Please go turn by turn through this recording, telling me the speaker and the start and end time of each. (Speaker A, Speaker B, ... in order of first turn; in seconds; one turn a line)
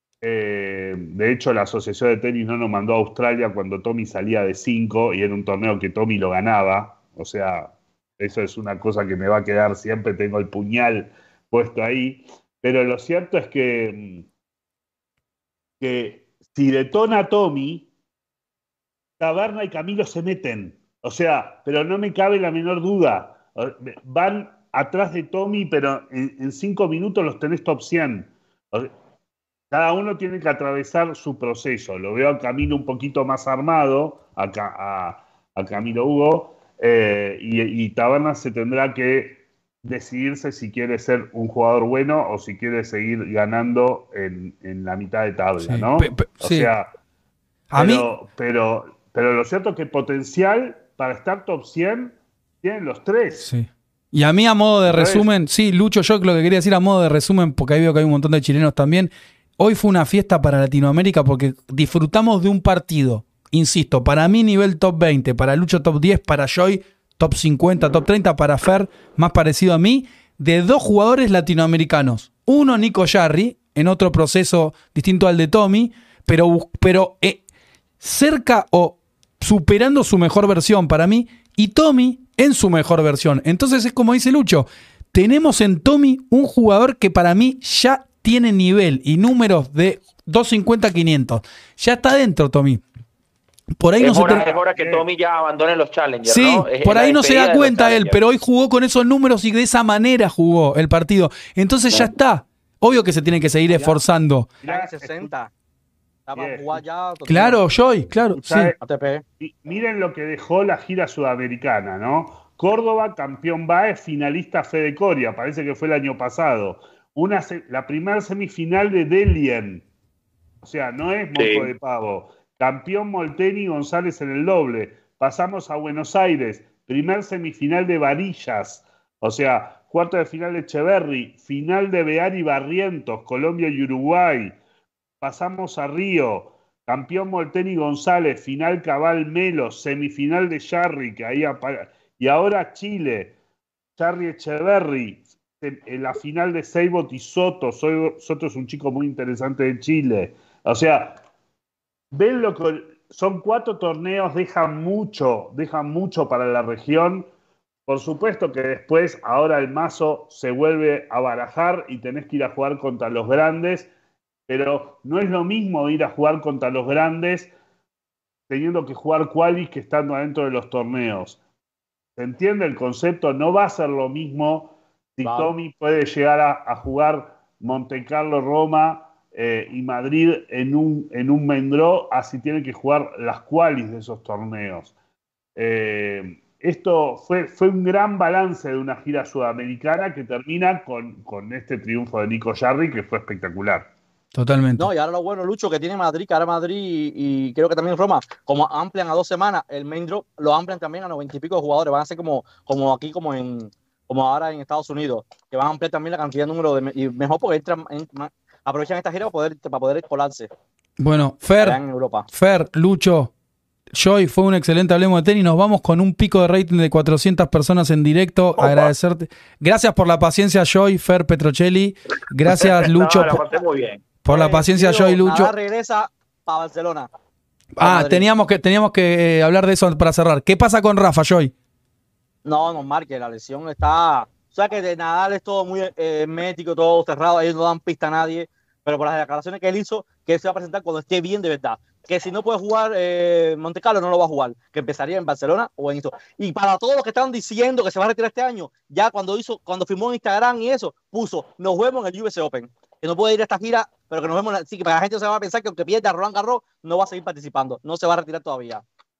Speaker A: 0.2-14.2
Speaker A: 15.8-17.9
Speaker A: 19.2-28.9
Speaker A: 29.7-46.9
Speaker B: 45.6-46.7
Speaker B: 47.7-48.0
Speaker A: 47.8-53.5
Speaker B: 53.4-77.4
Speaker A: 54.9-55.3
Speaker B: 78.0-92.8
Speaker B: 93.8-94.5
Speaker C: 94.0-98.2
Speaker A: 94.1-95.0
Speaker B: 96.2-104.5
Speaker D: 103.7-104.0
Speaker A: 104.6-105.3
Speaker D: 104.6-105.5
Speaker D: 106.3-107.6
Speaker A: 106.3-106.8
Speaker B: 107.3-108.7
Speaker D: 108.4-109.2
Speaker A: 108.5-108.7
Speaker A: 109.4-119.8
Speaker A: 120.6-134.6
Speaker C: 121.3-121.7
Speaker A: 135.2-143.3
Speaker A: 144.0-151.2
Speaker A: 152.1-157.3
Speaker A: 157.9-163.9
Speaker A: 164.5-167.5
Speaker A: 168.5-171.4
Speaker A: 172.2-184.9
Speaker D: 175.2-175.5
Speaker A: 185.6-193.9
Speaker B: 194.3-194.9
Speaker D: 194.8-210.5
Speaker B: 211.0-211.8
Speaker D: 211.6-212.3
Speaker B: 212.3-213.3
Speaker B: 213.9-223.4
Speaker C: 218.6-218.9
Speaker C: 222.5-224.0
Speaker B: 224.2-225.5
Speaker D: 224.3-227.1
Speaker B: 227.8-231.5
Speaker D: 227.8-228.2
Speaker D: 232.4-258.8